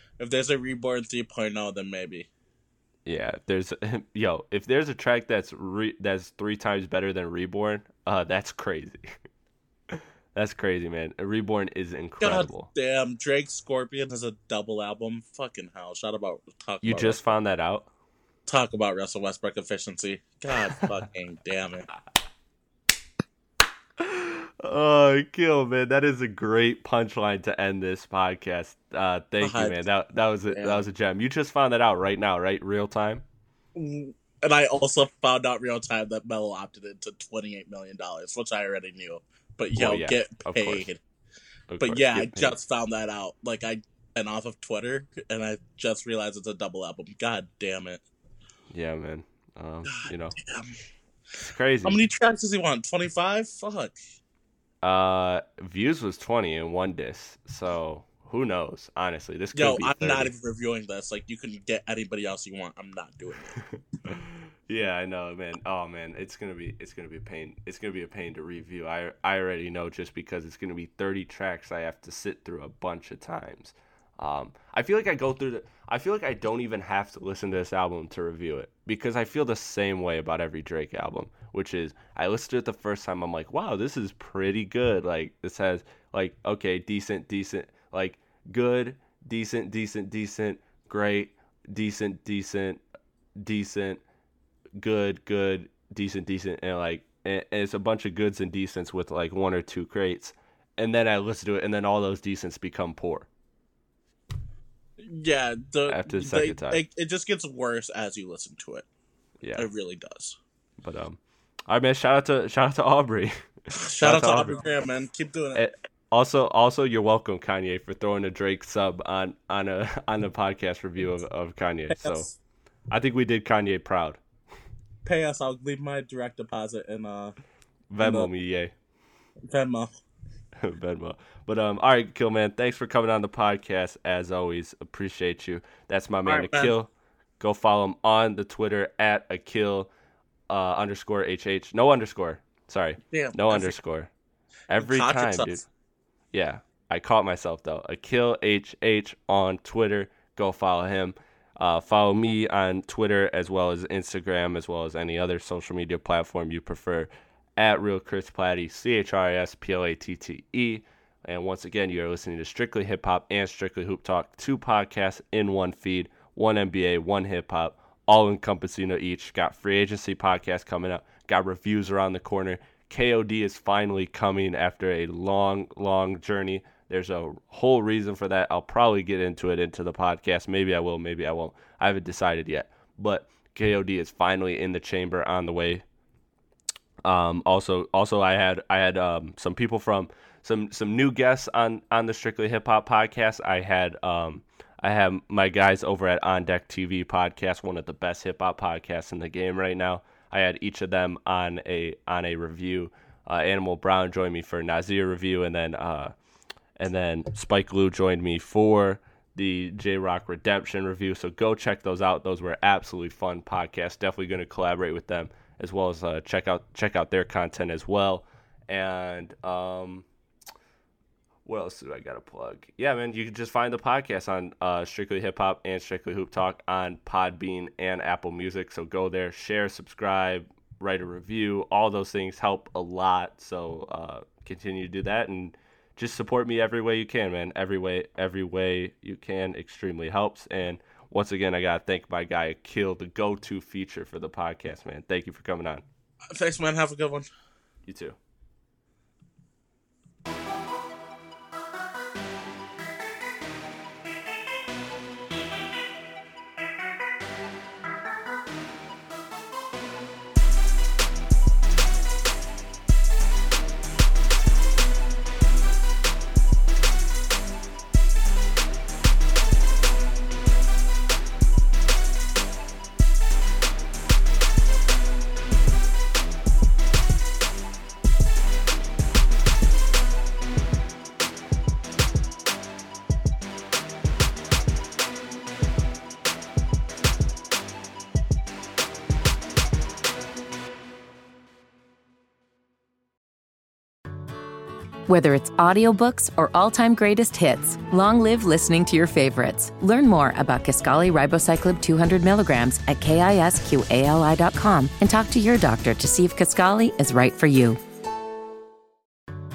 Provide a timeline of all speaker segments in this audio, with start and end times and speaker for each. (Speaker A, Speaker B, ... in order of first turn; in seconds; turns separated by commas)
Speaker A: 0.2-2.3, Speaker B: 3.0-9.1, Speaker B: 9.9-12.7, Speaker A: 12.2-17.2, Speaker B: 16.8-17.9, Speaker A: 18.4-21.9, Speaker B: 24.0-33.2, Speaker A: 29.4-29.8, Speaker A: 30.5-30.8, Speaker A: 33.7-41.0, Speaker B: 39.7-40.9, Speaker B: 41.7-42.6, Speaker A: 41.8-48.0, Speaker B: 48.7-50.4, Speaker A: 50.0-50.8, Speaker B: 51.4-52.0, Speaker A: 51.8-54.0, Speaker B: 54.8-60.3, Speaker A: 59.5-63.6, Speaker B: 63.6-92.8, Speaker B: 93.4-94.0, Speaker B: 94.8-103.3, Speaker A: 105.0-108.9, Speaker B: 105.9-106.8, Speaker B: 109.4-109.7, Speaker A: 109.6-110.4, Speaker B: 110.8-114.7, Speaker A: 113.7-115.6, Speaker B: 115.5-122.3, Speaker A: 121.9-122.3, Speaker B: 122.9-124.2, Speaker A: 125.0-127.3, Speaker B: 127.9-128.7, Speaker A: 128.0-128.3, Speaker A: 129.4-129.9, Speaker B: 130.6-139.9, Speaker A: 136.2-136.7, Speaker B: 140.5-144.1, Speaker A: 143.1-143.8, Speaker B: 144.7-145.6, Speaker A: 144.8-145.6, Speaker B: 146.3-185.8, Speaker B: 187.0-206.1, Speaker B: 206.8-220.0, Speaker B: 221.4-245.8, Speaker A: 246.3-247.3, Speaker B: 247.8-248.2, Speaker C: 295.1-307.8